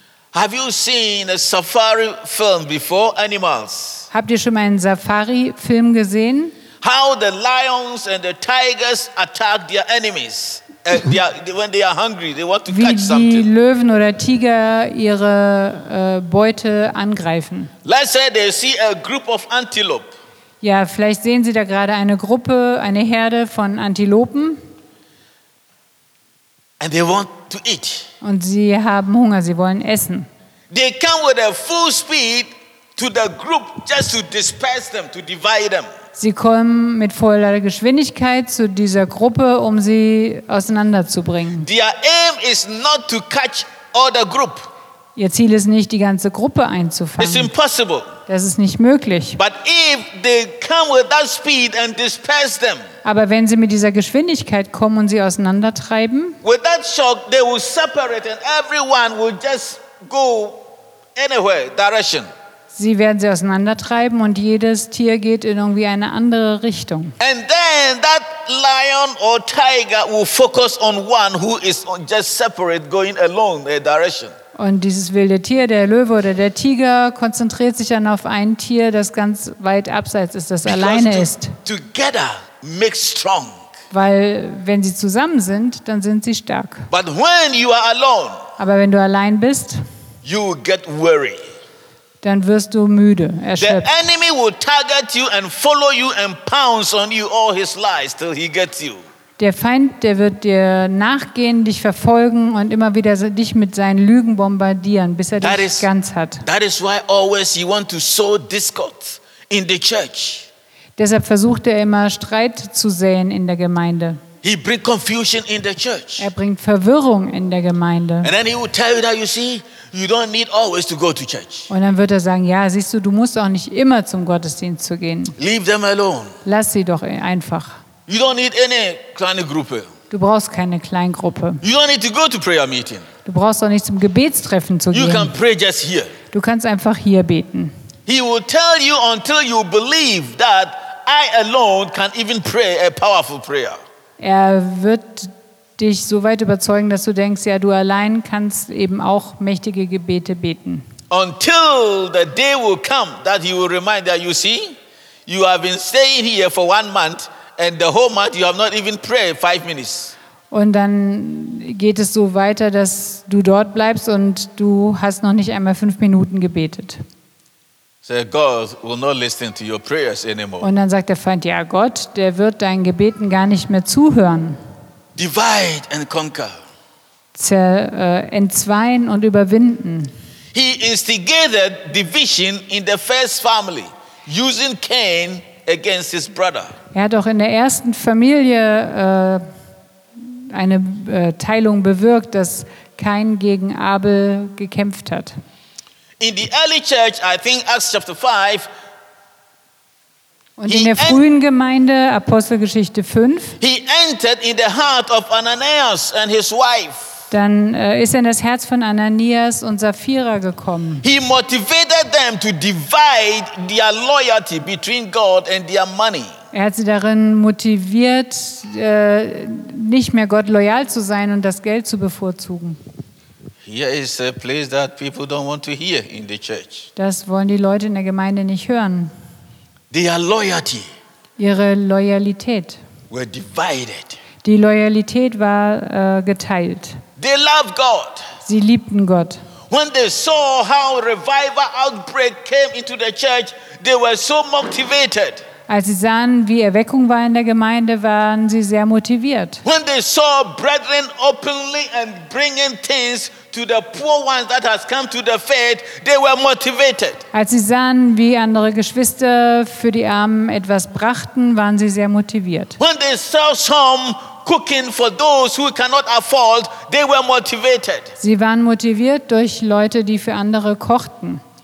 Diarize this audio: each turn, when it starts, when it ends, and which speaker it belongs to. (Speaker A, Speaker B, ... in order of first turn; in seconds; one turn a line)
Speaker A: 0.3-4.1
Speaker B: 4.1-6.6
Speaker A: 6.8-13.5
Speaker B: 12.7-17.7
Speaker A: 17.9-20.1
Speaker B: 20.6-24.6
Speaker A: 26.8-28.1
Speaker B: 28.2-30.3
Speaker A: 30.7-35.9
Speaker B: 36.2-41.7
Speaker A: 41.6-44.7
Speaker B: 45.2-47.5
Speaker A: 47.2-48.1
Speaker B: 48.3-49.4
Speaker A: 49.4-52.9
Speaker B: 53.0-56.4
Speaker A: 56.4-60.6
Speaker A: 61.2-62.3
Speaker B: 62.7-67.2
Speaker A: 67.2-74.3
Speaker B: 74.6-81.6
Speaker A: 80.7-83.6
Speaker B: 83.9-86.9
Speaker A: 86.9-88.4
Speaker B: 88.6-89.8
Speaker A: 90.2-91.5
Speaker B: 92.2-94.0
Speaker A: 93.6-99.0
Speaker B: 99.4-106.5
Speaker A: 105.4-105.9
Speaker A: 106.4-110.5
Speaker B: 111.0-114.2
Speaker A: 114.4-116.3
Speaker B: 116.2-118.3
Speaker A: 118.2-121.7
Speaker B: 121.7-125.4
Speaker A: 125.4-126.4
Speaker B: 126.5-127.8
Speaker A: 128.1-129.9
Speaker B: 130.1-131.6
Speaker A: 131.6-133.1
Speaker B: 133.2-135.3
Speaker A: 134.9-136.1
Speaker B: 136.3-137.7
Speaker A: 138.1-143.8
Speaker B: 144.2-150.9
Speaker A: 151.1-160.1
Speaker B: 160.5-167.0
Speaker A: 168.1-170.7
Speaker B: 170.6-174.6
Speaker A: 175.2-176.6
Speaker B: 177.3-180.1
Speaker A: 180.5-186.8
Speaker B: 186.9-189.4
Speaker B: 190.2-195.4
Speaker A: 196.2-198.7
Speaker B: 200.6-203.6
Speaker A: 200.7-201.2
Speaker A: 203.6-207.2
Speaker B: 207.3-211.0
Speaker A: 211.0-216.3
Speaker B: 216.5-222.8
Speaker A: 223.6-226.9
Speaker B: 227.0-229.1
Speaker A: 229.9-230.9
Speaker B: 231.4-232.8
Speaker A: 233.1-234.2
Speaker B: 234.4-237.0
Speaker A: 237.2-238.3
Speaker B: 238.4-239.4
Speaker A: 239.7-245.4
Speaker B: 245.7-249.6
Speaker A: 249.7-257.2
Speaker B: 257.3-262.8
Speaker A: 262.8-268.1
Speaker B: 268.2-271.4